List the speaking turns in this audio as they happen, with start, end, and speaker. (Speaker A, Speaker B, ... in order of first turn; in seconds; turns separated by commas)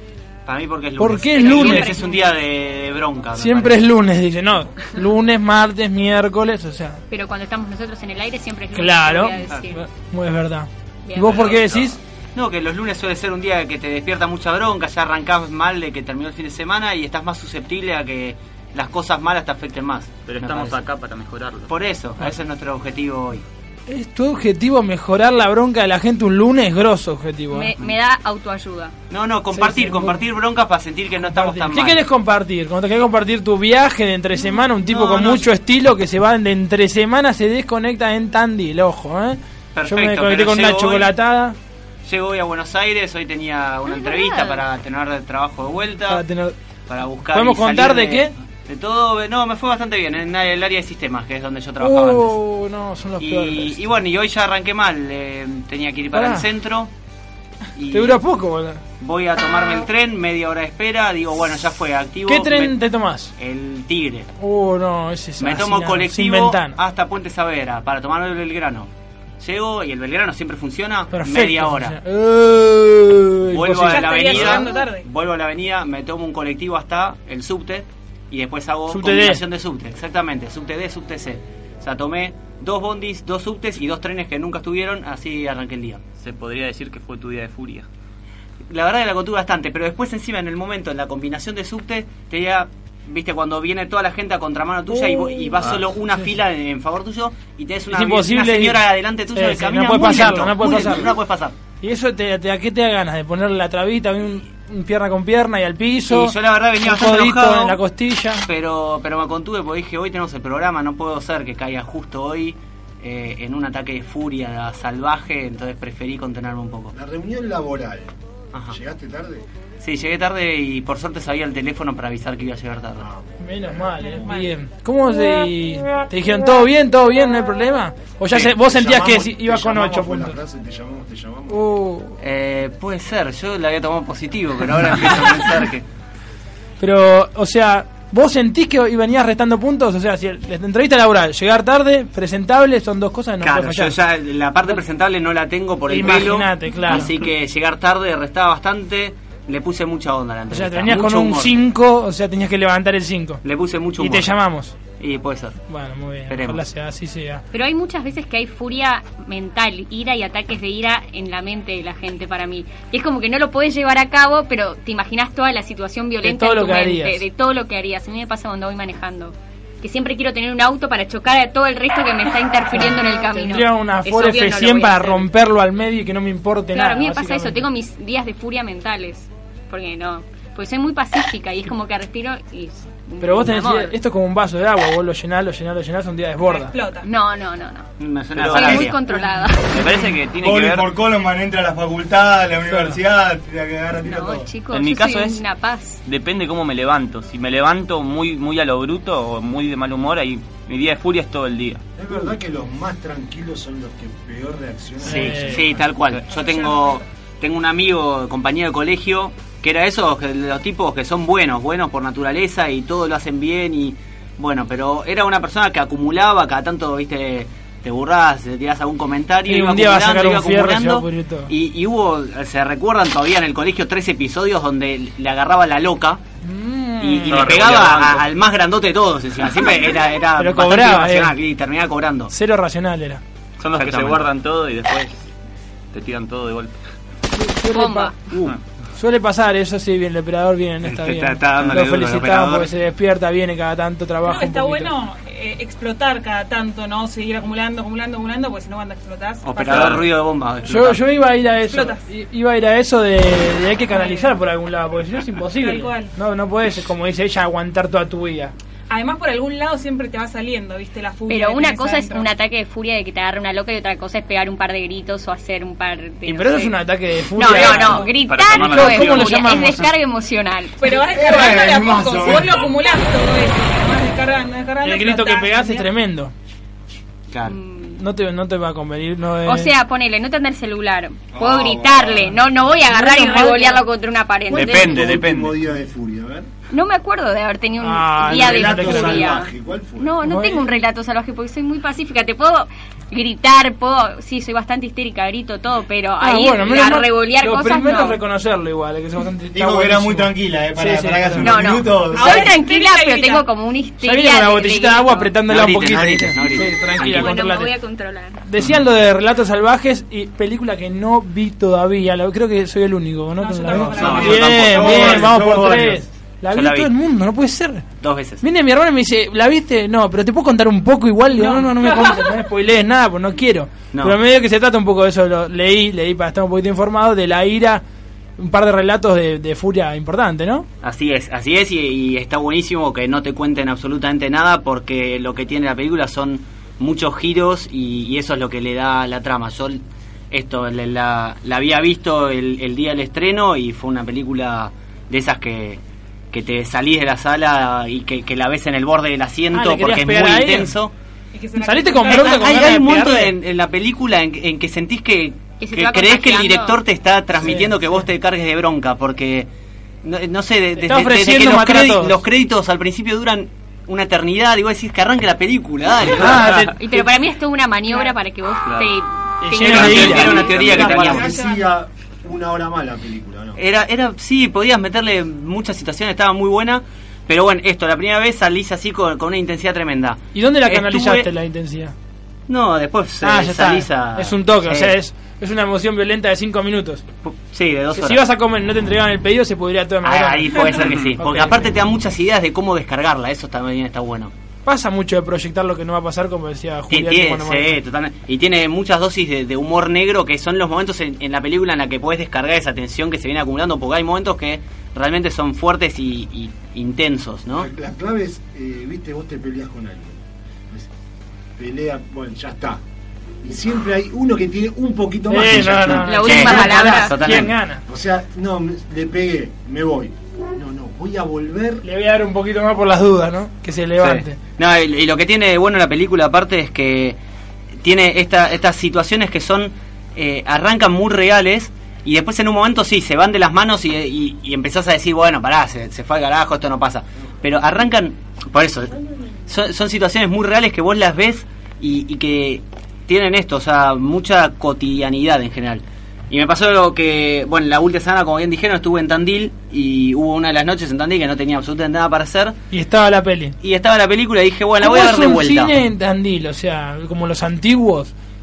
Speaker A: 0.5-3.9, Speaker B: 1.0-2.0, Speaker C: 1.4-2.2, Speaker B: 3.4-7.0, Speaker C: 7.1-9.8, Speaker B: 8.7-12.0, Speaker C: 11.1-11.5, Speaker A: 12.3-20.8, Speaker D: 20.2-21.7, Speaker A: 21.7-23.4, Speaker B: 23.9-27.7, Speaker C: 27.5-28.9, Speaker A: 29.1-32.0, Speaker B: 29.5-30.2, Speaker B: 31.2-41.6, Speaker A: 34.9-35.4, Speaker A: 39.7-41.1, Speaker A: 42.0-46.2, Speaker C: 43.9-44.6, Speaker B: 46.1-46.5, Speaker A: 46.9-52.4, Speaker B: 47.3-48.3, Speaker B: 51.8-53.8, Speaker A: 53.2-56.9, Speaker B: 56.1-56.4, Speaker A: 57.8-58.2, Speaker B: 57.9-58.8, Speaker A: 59.0-62.7, Speaker B: 62.3-63.3, Speaker A: 63.4-64.3, Speaker B: 64.4-66.8, Speaker A: 65.4-68.9, Speaker A: 69.4-72.0, Speaker B: 71.1-74.7, Speaker A: 73.5-86.0, Speaker E: 73.8-75.0, Speaker B: 78.9-79.4, Speaker D: 86.2-87.9, Speaker A: 88.7-101.5, Speaker B: 94.9-95.7, Speaker B: 97.9-98.8, Speaker B: 99.3-101.1, Speaker B: 101.8-108.5, Speaker A: 106.1-107.8, Speaker A: 108.5-116.9, Speaker F: 116.9-118.1, Speaker F: 118.7-119.4, Speaker A: 119.8-123.0, Speaker F: 123.0-123.3, Speaker B: 123.4-130.4, Speaker E: 124.0-124.5, Speaker F: 128.4-131.6, Speaker B: 131.5-132.2, Speaker A: 132.2-135.8, Speaker B: 136.8-143.9, Speaker A: 143.4-151.5, Speaker B: 145.9-147.1, Speaker B: 150.5-153.4, Speaker A: 153.4-154.3, Speaker B: 154.0-154.7, Speaker A: 155.0-155.6, Speaker B: 155.7-157.4, Speaker A: 156.3-156.6, Speaker C: 157.5-175.3, Speaker B: 166.2-167.2, Speaker B: 172.7-177.7, Speaker C: 176.7-183.9, Speaker B: 183.2-186.7, Speaker E: 186.4-187.1, Speaker C: 187.0-187.9, Speaker A: 188.0-189.0, Speaker G: 188.3-189.1, Speaker C: 188.4-189.7, Speaker D: 189.7-190.9, Speaker G: 189.9-194.5, Speaker B: 192.7-193.0, Speaker C: 194.0-196.0, Speaker D: 194.7-195.4, Speaker D: 196.0-201.8, Speaker F: 201.9-205.9, Speaker B: 205.0-205.6, Speaker A: 205.0-226.2, Speaker E: 206.3-207.0, Speaker B: 219.5-221.5, Speaker B: 226.4-227.5, Speaker A: 227.0-232.3, Speaker D: 227.3-228.2, Speaker B: 230.4-231.3, Speaker B: 232.3-233.2, Speaker D: 233.6-235.3, Speaker A: 233.8-234.2, Speaker D: 235.9-236.8, Speaker B: 237.3-238.1, Speaker C: 237.7-238.2, Speaker B: 238.9-244.9, Speaker A: 240.8-242.7, Speaker E: 244.2-250.0, Speaker A: 249.4-251.0, Speaker D: 249.7-250.1, Speaker B: 250.7-258.5, Speaker E: 251.6-252.1, Speaker E: 253.9-254.4, Speaker E: 255.6-256.1, Speaker E: 258.9-262.3, Speaker C: 261.3-266.8, Speaker B: 266.2-269.9, Speaker C: 267.3-270.8, Speaker D: 267.6-269.5, Speaker E: 270.8-275.9, Speaker G: 270.8-272.8, Speaker B: 274.8-276.3, Speaker A: 277.3-277.6, Speaker C: 277.5-277.9, Speaker B: 277.9-279.7, Speaker C: 279.4-285.1, Speaker F: 281.3-282.4, Speaker B: 282.9-283.7, Speaker E: 283.5-283.8, Speaker D: 284.5-285.6, Speaker F: 284.5-286.5, Speaker C: 286.7-298.2, Speaker B: 287.8-289.4, Speaker F: 288.2-290.2, Speaker B: 290.2-290.6, Speaker B: 296.2-301.5, Speaker G: 299.5-302.5, Speaker C: 301.4-305.3, Speaker E: 302.1-303.4, Speaker B: 304.0-307.7, Speaker A: 305.5-307.4, Speaker C: 306.9-308.4, Speaker B: 308.4-317.8, Speaker E: 313.4-314.7, Speaker G: 313.7-316.0, Speaker D: 313.9-315.2, Speaker A: 316.5-316.9, Speaker A: 318.0-318.4, Speaker B: 318.4-327.8, Speaker E: 321.4-322.4, Speaker B: 328.4-330.6, Speaker A: 330.8-339.8, Speaker A: 340.3-345.8, Speaker A: 346.3-350.9, Speaker B: 349.5-350.7, Speaker E: 351.3-352.5, Speaker B: 351.6-353.3, Speaker A: 352.1-359.5, Speaker C: 355.6-356.8, Speaker B: 357.4-357.7, Speaker A: 360.0-366.5, Speaker B: 360.8-362.2, Speaker B: 366.1-367.0, Speaker D: 366.3-366.7, Speaker C: 366.6-370.8, Speaker D: 368.6-368.9, Speaker B: 369.4-370.3, Speaker A: 369.6-371.3, Speaker D: 369.7-371.3, Speaker F: 370.3-373.6, Speaker E: 371.0-371.7, Speaker A: 373.6-381.3, Speaker B: 380.3-381.9, Speaker A: 382.5-384.9, Speaker B: 383.2-387.0, Speaker A: 387.2-388.2, Speaker B: 387.9-391.6, Speaker A: 390.0-394.3, Speaker B: 394.6-397.8, Speaker A: 396.9-407.7, Speaker F: 407.5-410.2, Speaker F: 411.6-412.8, Speaker F: 413.4-416.1, Speaker B: 415.3-417.8, Speaker C: 416.1-417.3, Speaker A: 416.1-417.5, Speaker F: 417.9-421.8, Speaker B: 421.8-424.4, Speaker A: 424.0-427.2, Speaker A: 427.8-438.9, Speaker A: 439.5-452.6, Speaker B: 452.7-453.6, Speaker A: 453.6-455.8, Speaker B: 454.8-458.1